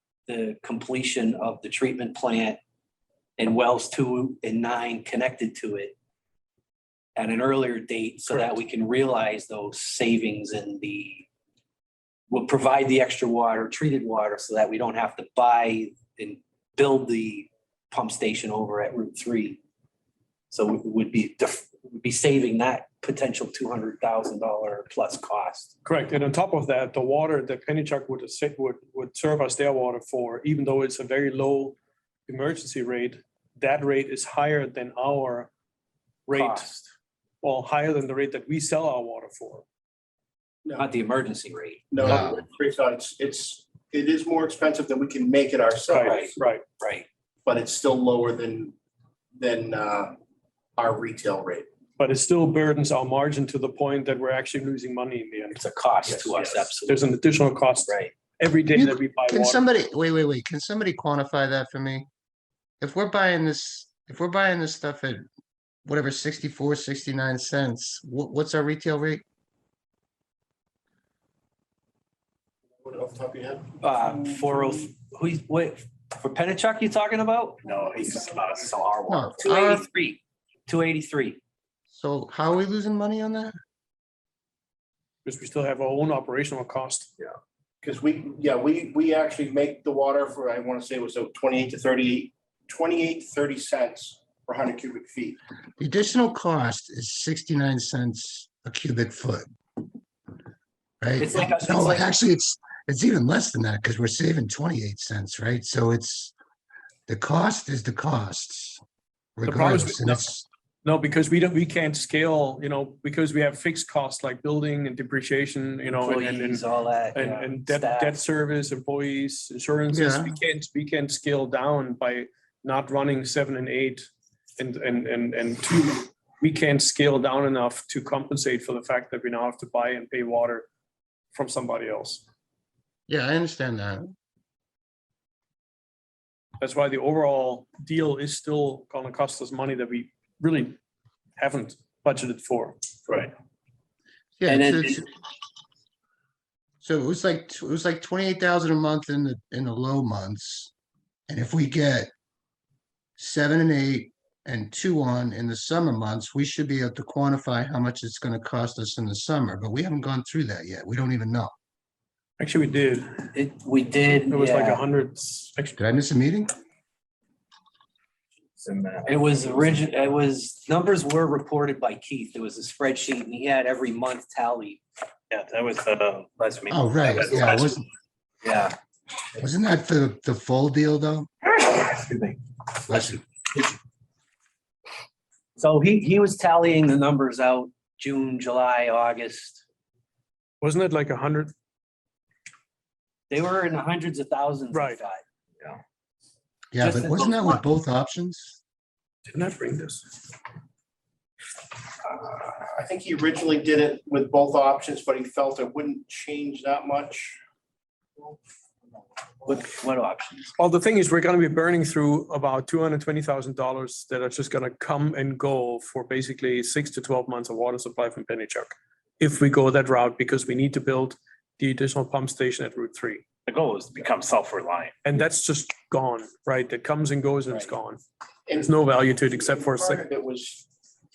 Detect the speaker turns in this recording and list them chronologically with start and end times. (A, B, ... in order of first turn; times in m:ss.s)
0:00.3-0:02.6 A
0:03.4-0:05.9 A
0:07.2-0:11.3 A
0:08.3-0:08.6 B
0:12.3-0:19.6 A
0:20.5-0:25.7 A
0:25.8-0:31.8 B
0:32.3-0:35.5 B
0:36.3-0:36.9 B
0:36.3-0:36.7 A
0:37.4-0:39.6 B
0:40.8-0:41.9 A
0:41.9-0:46.4 C
0:42.0-0:42.4 D
0:45.9-0:46.6 B
0:45.9-0:47.0 A
0:47.4-0:48.7 C
0:49.4-0:50.1 C
0:50.8-0:51.6 C
0:52.0-0:55.6 B
0:55.5-0:57.1 A
0:56.1-0:56.7 E
0:56.8-0:59.6 B
0:57.9-0:58.1 A
0:58.7-1:02.1 D
1:02.8-1:05.2 D
1:05.8-1:09.2 D
1:12.8-1:13.8 C
1:13.8-1:17.6 A
1:17.6-1:19.1 E
1:18.6-1:21.4 A
1:19.1-1:19.8 D
1:21.9-1:23.5 D
1:25.2-1:27.1 B
1:27.8-1:35.4 C
1:35.8-1:39.4 D
1:41.0-1:46.3 D
1:41.2-1:42.1 A
1:47.1-1:48.8 D
1:49.4-1:50.4 D
1:49.4-1:50.3 B
1:50.8-2:10.7 B
1:56.0-1:58.2 A
1:59.9-2:00.4 D
2:11.3-2:12.2 B
2:13.1-2:14.1 D
2:16.6-2:20.8 B
2:21.4-2:22.9 B
2:24.4-2:25.1 D
2:24.5-2:25.0 A
2:26.8-2:30.7 D
2:31.3-2:32.1 D
2:33.2-2:41.5 D
2:42.4-2:43.3 B
2:43.3-2:44.8 A
2:44.2-2:45.8 B
2:45.8-2:46.5 D
2:48.6-2:49.9 E
2:49.0-2:54.8 A
2:55.3-2:57.8 E
2:56.7-2:57.8 D
2:58.4-2:58.8 A
2:59.4-3:01.3 D
3:01.7-3:02.4 E
3:02.9-3:03.2 D
3:05.6-3:09.6 A
3:10.6-3:11.5 B
3:13.3-3:15.2 A
3:14.7-3:15.0 B
3:16.7-3:18.6 D
3:16.8-3:17.6 A
3:19.2-3:20.2 B
3:22.0-3:27.4 C
3:29.4-3:30.5 A
3:30.6-3:43.2 B
3:43.4-3:44.9 E
3:45.0-3:48.0 B
3:48.5-3:50.6 C
3:48.5-3:50.0 B